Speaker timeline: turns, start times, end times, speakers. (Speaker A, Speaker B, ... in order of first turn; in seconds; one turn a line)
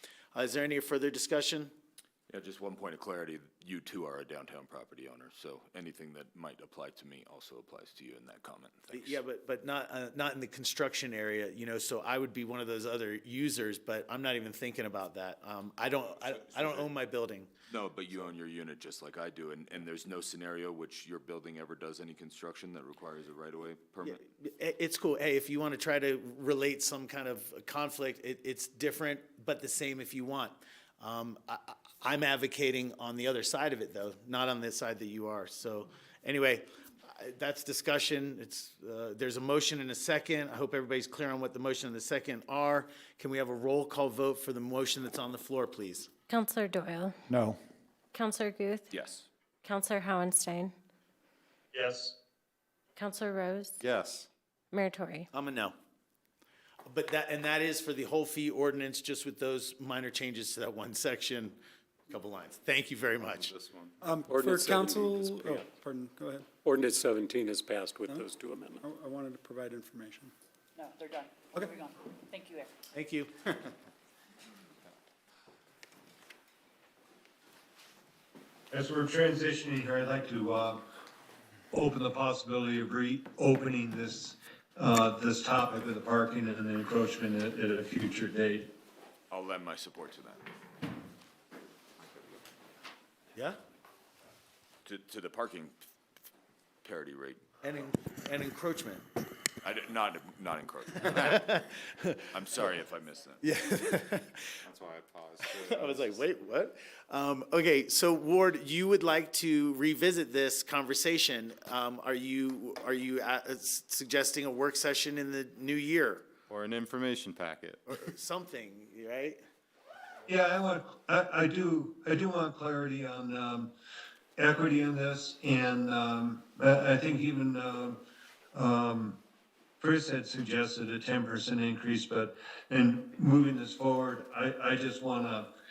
Speaker A: 0.3-1.7
Speaker B: 2.3-9.2
Speaker A: 8.9-17.5
Speaker B: 17.7-24.2
Speaker A: 24.1-46.1
Speaker C: 46.3-47.2
Speaker D: 47.3-47.6
Speaker C: 48.1-48.9
Speaker B: 48.9-49.3
Speaker C: 49.6-50.7
Speaker E: 51.7-52.1
Speaker C: 53.0-53.8
Speaker F: 53.8-54.3
Speaker C: 54.7-55.3
Speaker A: 55.3-55.8
Speaker A: 56.9-61.6
Speaker A: 62.1-63.5
Speaker F: 63.3-64.0
Speaker D: 64.0-66.6
Speaker G: 64.3-65.5
Speaker G: 66.7-68.8
Speaker D: 68.8-70.3
Speaker H: 70.8-72.8
Speaker A: 72.9-73.3
Speaker E: 78.7-80.8
Speaker E: 81.7-88.7
Speaker B: 89.3-90.5
Speaker B: 94.8-95.8
Speaker B: 96.8-97.5
Speaker A: 97.6-99.1
Speaker B: 99.6-101.7
Speaker A: 101.1-102.3
Speaker B: 102.3-103.5
Speaker A: 103.4-104.5
Speaker F: 104.6-106.2
Speaker A: 105.5-116.3
Speaker F: 116.5-117.9
Speaker A: 117.9-119.4
Speaker E: 120.3-123.7
Speaker E: 124.4-128.0
Speaker E: 128.5-129.2
Speaker E: 129.8-135.5